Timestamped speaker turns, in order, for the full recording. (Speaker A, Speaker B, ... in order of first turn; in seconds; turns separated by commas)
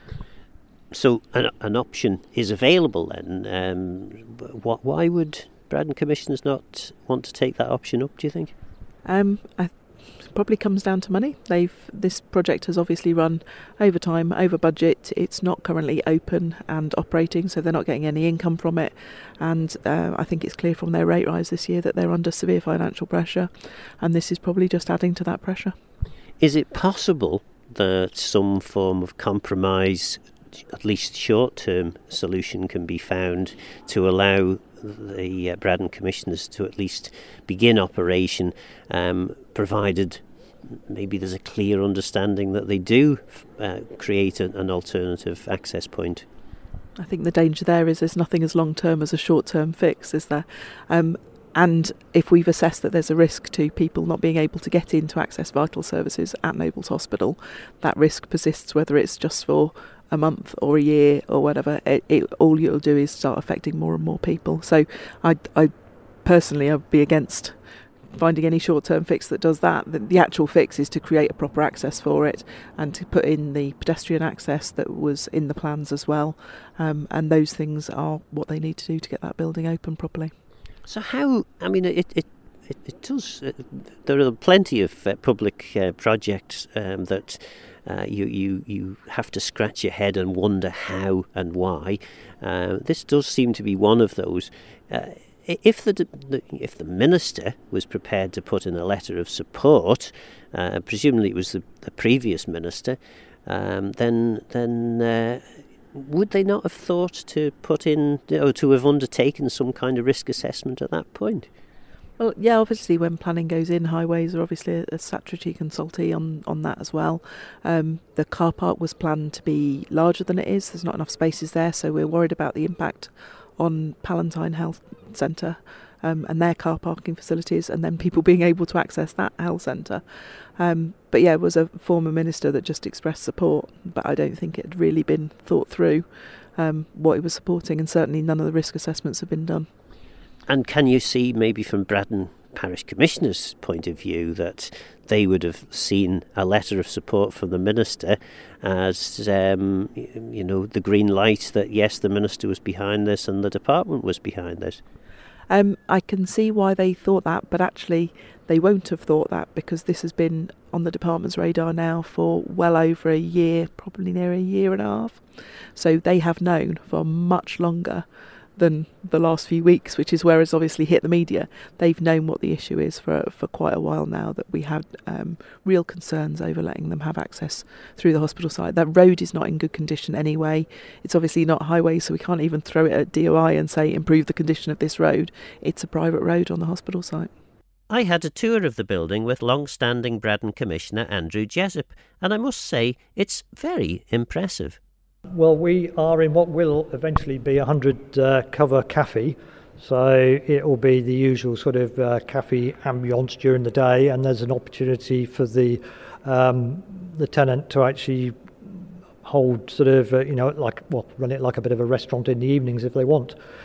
Speaker A: 0.9-8.5, Speaker B: 9.0-25.7, Speaker A: 26.4-46.2, Speaker B: 47.0-80.3, Speaker A: 80.8-111.5, Speaker B: 112.2-139.7, Speaker A: 140.5-154.8, Speaker B: 155.5-187.3, Speaker A: 187.9-194.8, Speaker C: 195.3-213.3